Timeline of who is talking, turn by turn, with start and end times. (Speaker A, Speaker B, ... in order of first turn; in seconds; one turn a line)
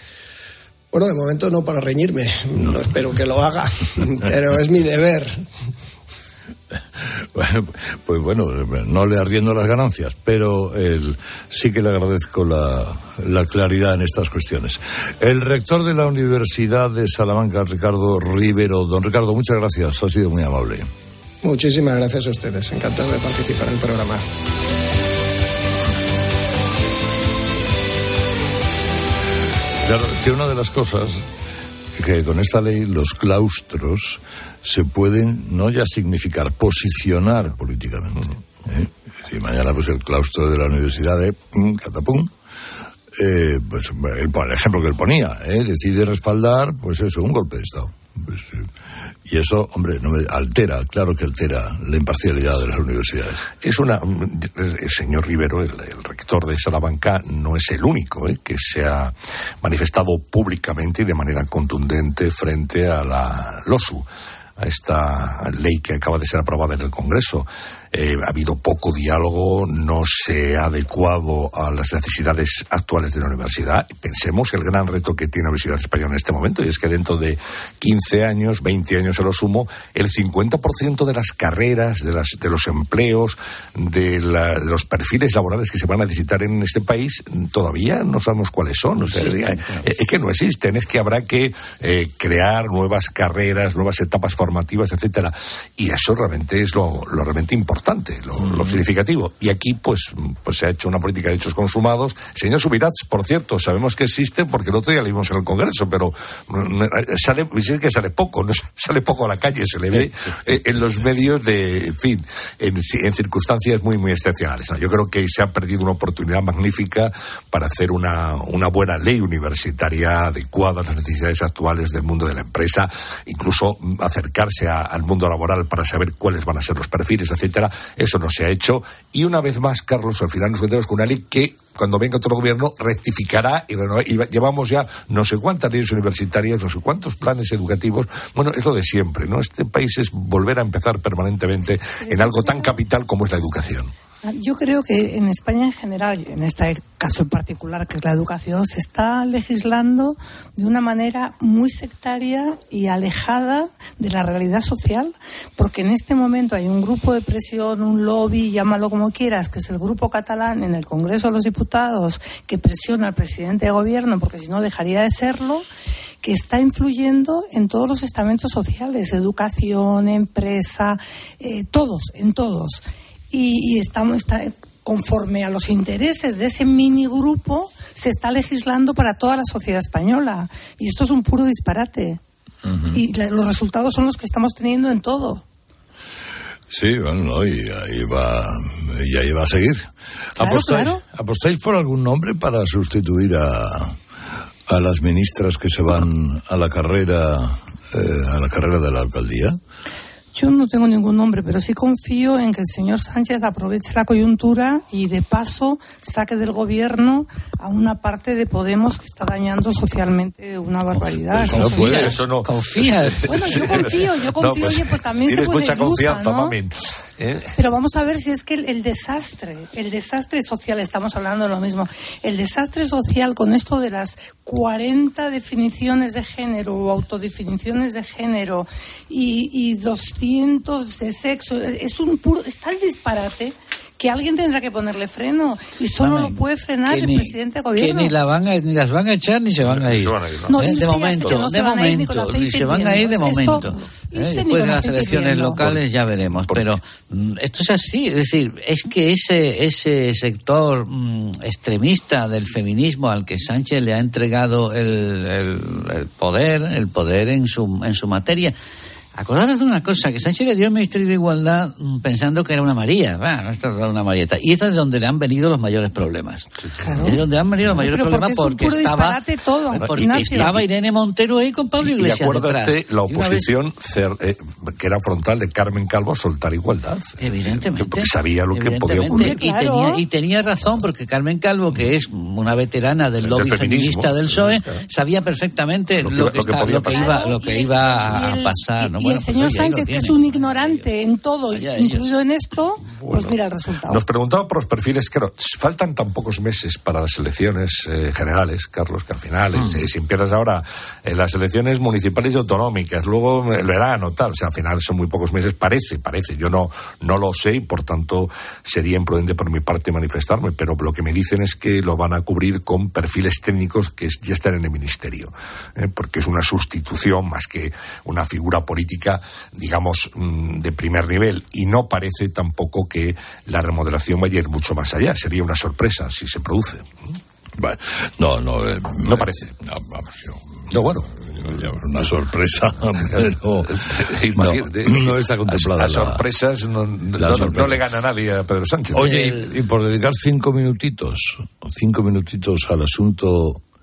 Speaker A: 0.9-5.4
Speaker B: 7.0-20.9
Speaker A: 21.4-24.2
Speaker B: 29.8-31.2
Speaker B: 31.9-42.3
Speaker B: 43.1-48.7
Speaker B: 49.2-53.4
Speaker C: 53.6-64.0
Speaker C: 64.6-143.9
Speaker D: 89.0-89.3
Speaker B: 98.4-98.8
Speaker E: 142.0-142.8
Speaker E: 144.2-165.6
Speaker E: 166.2-182.2
Speaker B: 182.6-183.0
Speaker E: 182.9-185.4
Speaker B: 186.7-194.0
Speaker E: 190.4-191.0
Speaker B: 194.7-199.6
Speaker E: 200.3-212.2
Speaker C: 211.3-217.5
Speaker D: 211.6-213.9
Speaker E: 213.3-216.5
Speaker E: 217.6-238.1
Speaker D: 236.0-258.5
Speaker C: 239.6-240.6
Speaker E: 240.5-245.6
Speaker C: 245.6-246.7
Speaker D: 259.1-269.2
Speaker E: 266.8-267.2
Speaker E: 267.7-270.6
Speaker D: 269.7-273.5
Speaker C: 269.8-270.6
Speaker C: 271.8-279.3
Speaker D: 277.2-290.9
Speaker E: 279.1-280.0
Speaker C: 283.2-284.8
Speaker C: 286.0-287.1
Speaker E: 286.9-294.0
Speaker D: 291.5-292.2
Speaker C: 292.9-293.4
Speaker C: 293.9-326.9
Speaker B: 299.6-299.9
Speaker B: 327.6-330.5
Speaker C: 329.0-329.5
Speaker C: 330.7-332.1
Speaker B: 331.4-333.7
Speaker C: 333.1-339.3
Speaker B: 334.3-336.2
Speaker B: 337.2-337.8
Speaker B: 338.9-343.6
Speaker D: 339.0-339.4